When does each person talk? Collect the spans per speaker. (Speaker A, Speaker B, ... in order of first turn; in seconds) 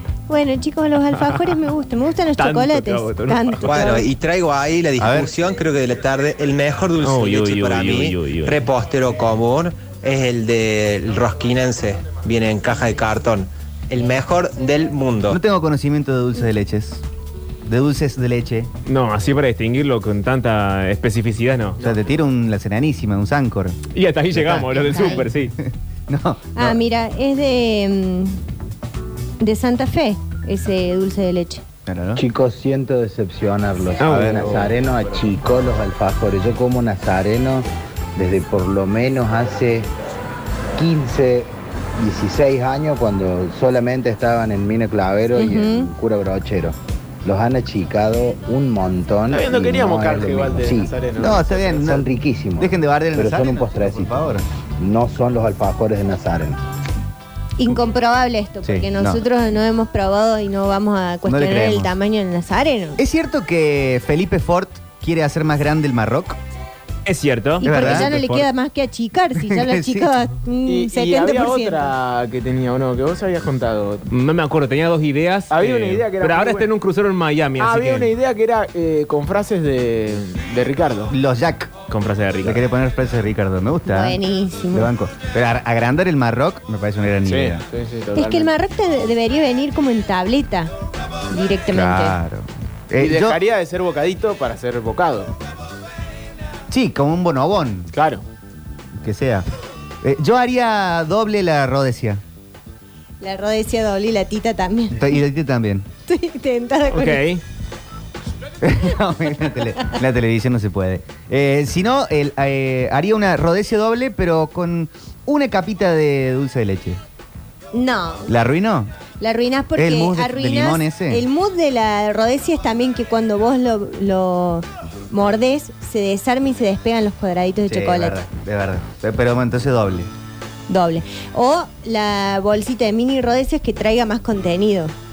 Speaker A: 0.3-4.1, 24.9-25.2, 26.6-28.4, 29.4-31.6, 45.4-45.9, 57.6-63.0, 67.6-71.9, 83.8-84.9, 88.1-90.7, 91.3-92.2, 103.2-105.1, 106.1-107.2, 117.7-118.3, 119.2-128.2, 130.7-134.9
Speaker B: 2.4-3.9, 7.0-8.6, 18.9-21.8, 23.9-25.5, 34.0-34.7, 67.0-68.5, 74.1-78.1, 81.9-82.7, 106.9-107.4
Speaker C: 3.6-15.4
Speaker D: 5.0-5.3, 15.3-17.0, 17.6-18.7, 21.8-23.8, 24.3-26.8, 31.9-32.2, 34.0-34.6, 51.2-52.0, 52.6-54.4, 58.6-59.2, 61.2-61.9, 63.0-66.4, 67.6-68.1, 69.4-70.1, 81.1-81.7, 82.4-84.2, 84.7-87.6, 91.7-93.4, 96.7-97.9, 99.0-99.5, 100.0-102.2, 104.9-105.9, 108.6-117.0, 118.3-118.9, 119.8-121.2, 127.7-130.1
Speaker E: 32.2-39.9, 40.8-51.0, 51.8-56.6
Speaker F: 49.3-51.8, 70.7-74.0, 75.5-76.7, 77.6-81.1, 87.2-88.5, 93.0-95.3, 97.9-98.2